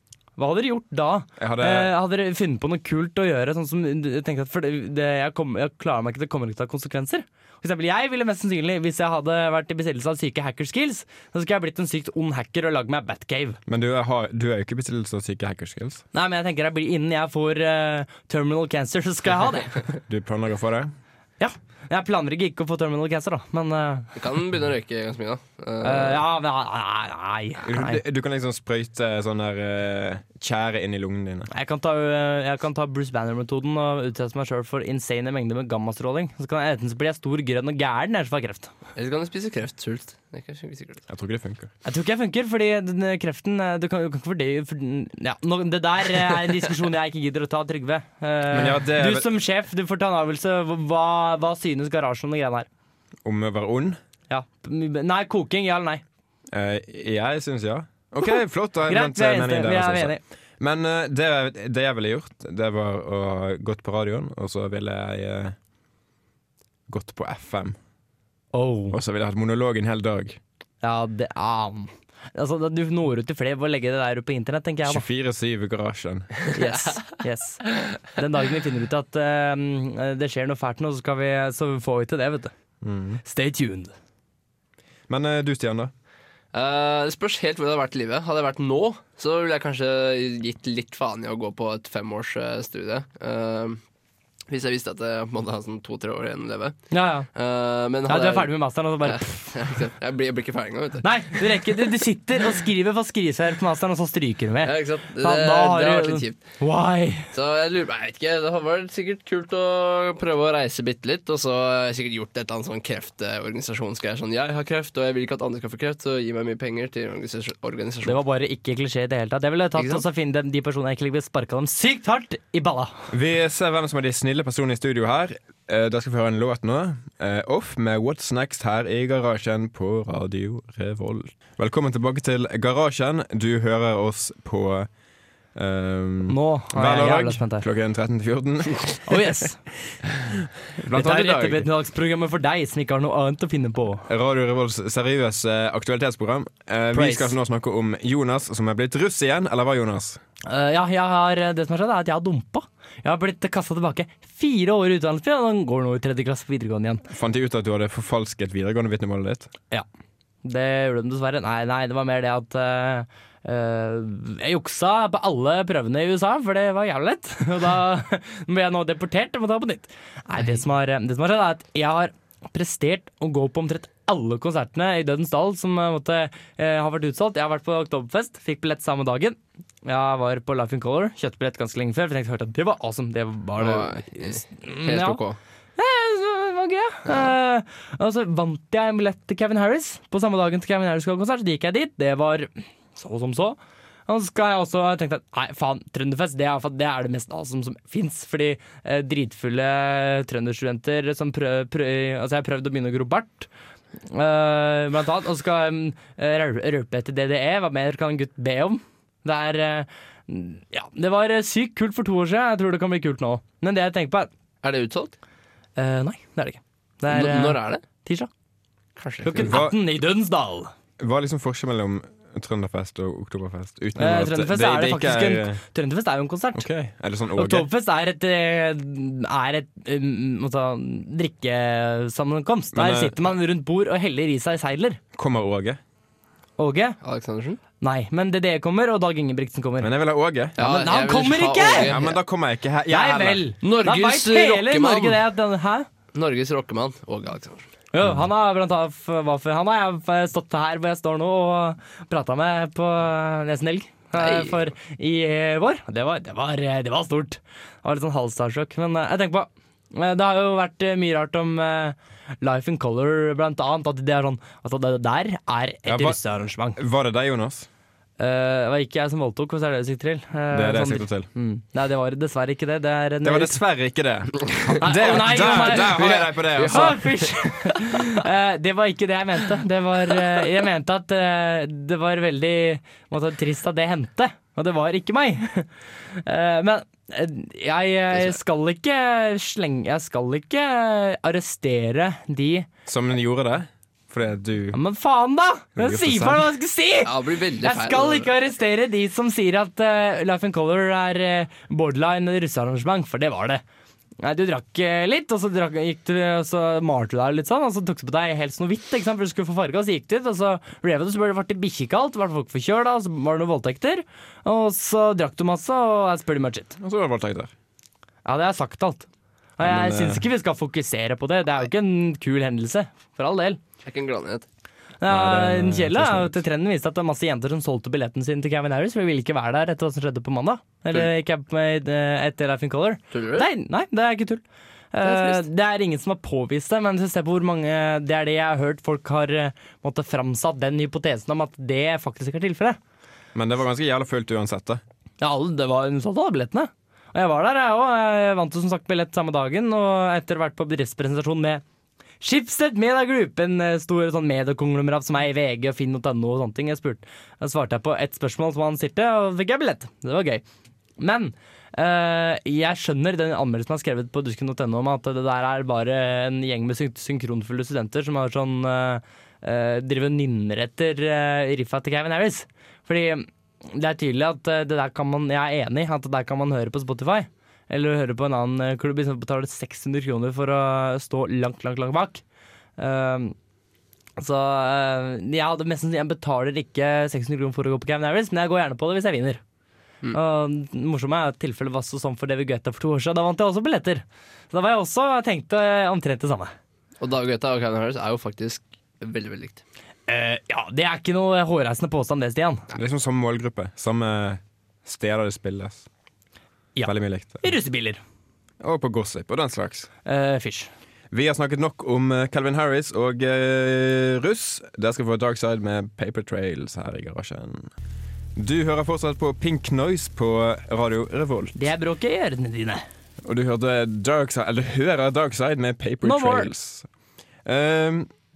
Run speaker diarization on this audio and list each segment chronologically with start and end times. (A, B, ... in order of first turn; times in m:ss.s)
0:00.4-0:13.6 A
0:01.4-0:01.9 B
0:13.7-0:16.0 B
0:16.1-0:19.8 A
0:20.1-0:20.9 B
0:21.4-0:24.1 A
0:24.1-0:26.2 C
0:25.8-0:28.0 A
0:27.6-0:31.5 B
0:31.5-0:38.7 A
0:39.0-0:41.0 C
0:41.1-0:41.7 B
0:41.8-0:52.7 A
0:48.5-0:49.3 B
0:53.2-0:54.0 B
0:54.3-0:56.0 A
0:56.5-1:05.6 B
0:58.2-1:00.2 A
1:06.9-1:07.8 B
1:08.5-1:09.0 A
1:08.9-1:10.4 B
1:10.8-1:15.0 A
1:14.8-1:16.4 B
1:16.5-1:22.5 A
1:16.7-1:17.0 C
1:22.8-1:23.2 B
1:23.2-1:23.9 A
1:25.1-1:25.9 B
1:26.5-1:33.8 C
1:34.5-1:36.8 C
1:36.9-1:37.3 A
1:37.4-1:38.5 C
1:38.1-1:39.5 A
1:39.0-1:41.1 C
1:41.0-1:47.3 A
1:44.6-1:46.4 C
1:47.3-1:58.2 C
1:58.0-2:03.0 A
1:59.8-2:00.0 C
2:03.1-2:14.9 B
2:15.5-2:19.3 B
2:16.3-2:17.6 A
2:19.0-2:19.6 A
2:20.4-2:21.7 B
2:20.9-2:24.1 A
2:24.1-2:30.2 B
2:26.9-2:27.4 A
2:30.4-2:37.0 A
2:37.1-2:39.5 B
2:40.4-3:05.2 A
3:03.6-3:05.4 C
3:05.8-3:23.5 A
3:24.0-3:34.3 A
3:34.6-3:35.1 C
3:35.8-3:38.3 A
3:37.1-3:37.8 C
3:39.0-3:39.6 C
3:39.2-3:40.7 A
3:39.4-3:39.8 B
3:41.0-3:45.6 B
3:44.0-3:46.6 A
3:46.5-3:47.7 B
3:47.4-3:55.0 A
3:52.7-3:53.2 B
3:55.1-3:55.8 B
3:56.6-3:57.0 A
3:57.0-3:57.6 C
3:57.8-3:59.9 A
3:59.8-4:00.6 B
4:00.6-4:02.0 A
4:00.6-4:02.2 C
4:01.8-4:03.4 B
4:02.9-4:05.9 A
4:03.6-4:05.2 C
4:06.1-4:07.7 C
4:07.9-4:26.8 A
4:14.1-4:14.7 C
4:25.9-4:26.2 B
4:26.8-4:27.7 B
4:28.2-4:33.6 A
4:30.5-4:31.3 B
4:33.2-4:37.0 B
4:34.8-4:36.1 A
4:35.0-4:37.1 C
4:36.6-4:52.7 A
4:52.9-4:54.8 B
4:54.7-5:03.6 A
4:55.8-4:56.5 B
4:57.0-4:58.3 C
5:04.2-5:16.8 A
5:16.8-5:17.5 B
5:18.2-5:19.1 A
5:19.6-5:23.6 A
5:19.6-5:20.2 B
5:23.8-5:24.5 C
5:25.0-5:42.8 A
5:25.1-5:26.4 B
5:33.1-5:33.5 C
5:35.0-5:35.4 C
5:43.3-5:44.8 B
5:45.2-5:51.6 A
5:52.2-6:00.4 A
6:01.0-6:22.2 A
6:22.8-6:23.3 A
6:24.2-6:29.4 A
6:30.1-6:36.5 A
6:37.0-6:39.6 C
6:40.1-6:42.6 A
6:42.7-6:45.8 B
6:46.8-6:48.0 A
6:46.8-6:47.5 B
6:48.6-6:49.9 B
6:50.0-6:50.7 A
6:51.1-6:57.7 B
6:58.3-7:01.6 B
7:01.6-7:02.8 A
7:03.2-7:06.9 B
7:06.0-7:06.5 A
7:07.4-7:08.1 B